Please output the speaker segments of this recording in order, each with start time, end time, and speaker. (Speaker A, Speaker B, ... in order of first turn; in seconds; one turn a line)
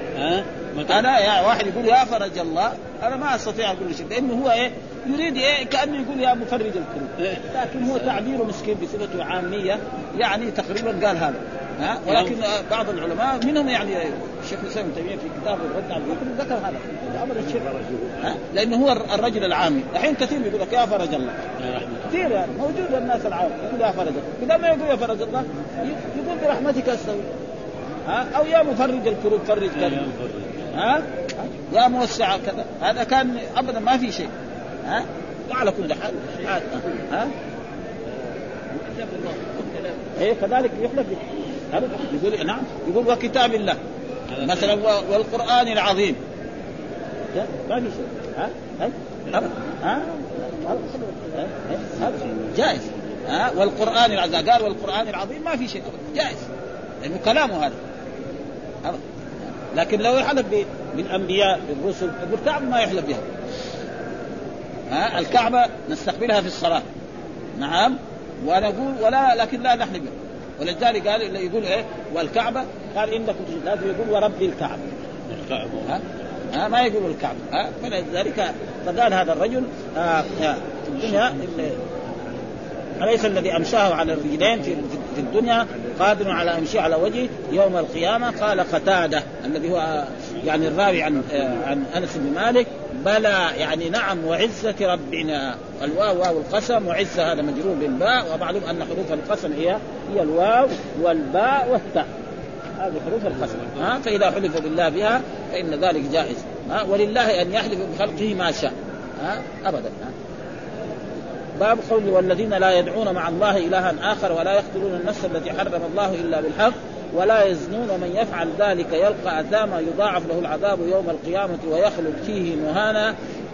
Speaker A: 0.2-1.0
Speaker B: 0.9-21.4
Speaker A: 7.2-8.1
Speaker A: 17.6-18.1
Speaker A: 21.6-22.2
Speaker B: 22.1-27.2
Speaker B: 28.1-30.1
Speaker A: 29.7-30.7
Speaker B: 30.7-34.3
Speaker B: 34.8-37.3
Speaker B: 38.7-43.8
Speaker A: 44.3-44.8
Speaker B: 44.4-46.2
Speaker B: 47.3-56.4
Speaker B: 57.0-57.8
Speaker B: 58.8-63.2
Speaker B: 64.9-66.8
Speaker B: 67.6-74.8
Speaker A: 75.3-76.0
Speaker B: 75.9-81.8
Speaker B: 83.0-102.1
Speaker B: 102.8-110.1
Speaker B: 111.6-123.1